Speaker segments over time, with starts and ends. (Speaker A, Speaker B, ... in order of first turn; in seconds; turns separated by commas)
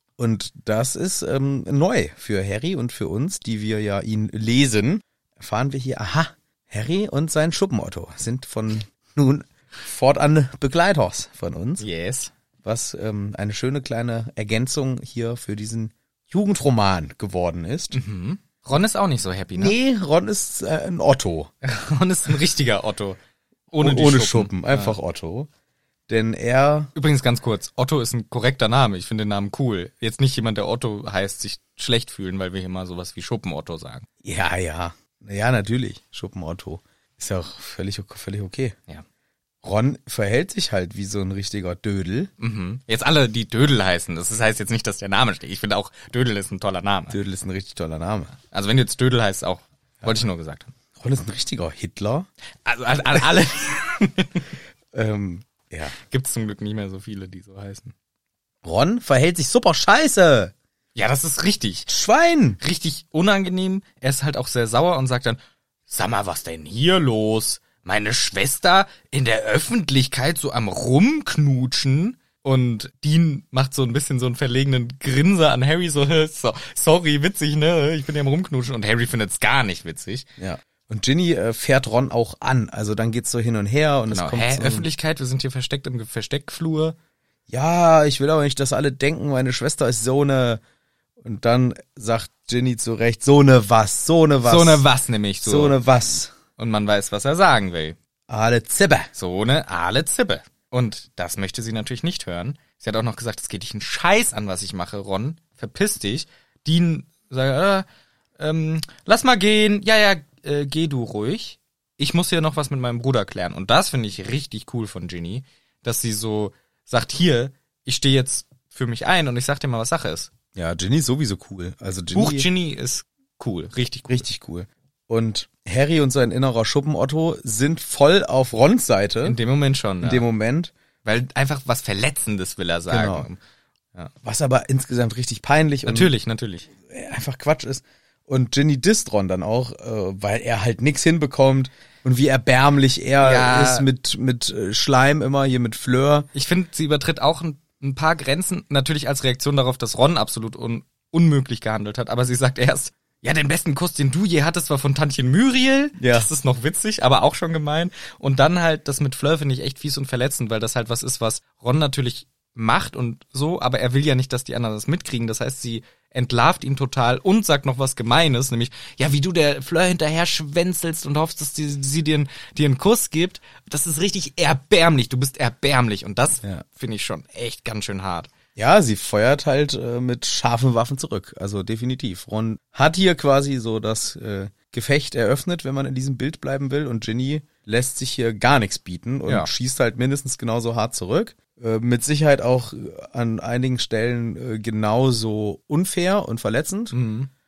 Speaker A: 0.2-11.8, Speaker B: 11.8-12.3, Speaker A: 12.6-18.0, Speaker B: 17.9-19.8, Speaker A: 19.6-21.5, Speaker B: 21.6-23.2, Speaker B: 23.7-25.0, Speaker A: 23.8-25.5, Speaker A: 26.1-26.9, Speaker B: 26.9-34.1, Speaker A: 34.2-38.8, Speaker A: 39.6-42.3, Speaker B: 42.4-47.2, Speaker A: 47.1-48.4, Speaker B: 48.5-50.7, Speaker A: 51.0-52.3, Speaker B: 52.6-54.5, Speaker A: 54.9-56.0, Speaker B: 55.9-57.9, Speaker A: 58.6-60.5, Speaker B: 61.0-61.9, Speaker A: 61.9-62.6, Speaker B: 62.6-80.3, Speaker A: 80.4-84.9, Speaker B: 84.1-87.0, Speaker A: 87.5-90.6, Speaker A: 91.2-94.9, Speaker B: 94.5-95.8, Speaker A: 95.4-96.3, Speaker B: 96.6-98.0, Speaker A: 98.3-99.1, Speaker B: 99.2-107.9, Speaker B: 108.4-120.3, Speaker A: 120.5-122.5, Speaker B: 122.1-124.2, Speaker A: 124.1-129.4, Speaker B: 129.2-130.3, Speaker A: 130.0-130.7, Speaker B: 131.0-133.4, Speaker A: 132.9-133.3, Speaker A: 134.2-136.1, Speaker B: 135.8-136.7, Speaker A: 136.9-146.3, Speaker B: 143.2-143.9, Speaker B: 146.3-178.3, Speaker A: 156.0-156.3, Speaker A: 178.6-196.9, Speaker B: 196.9-197.3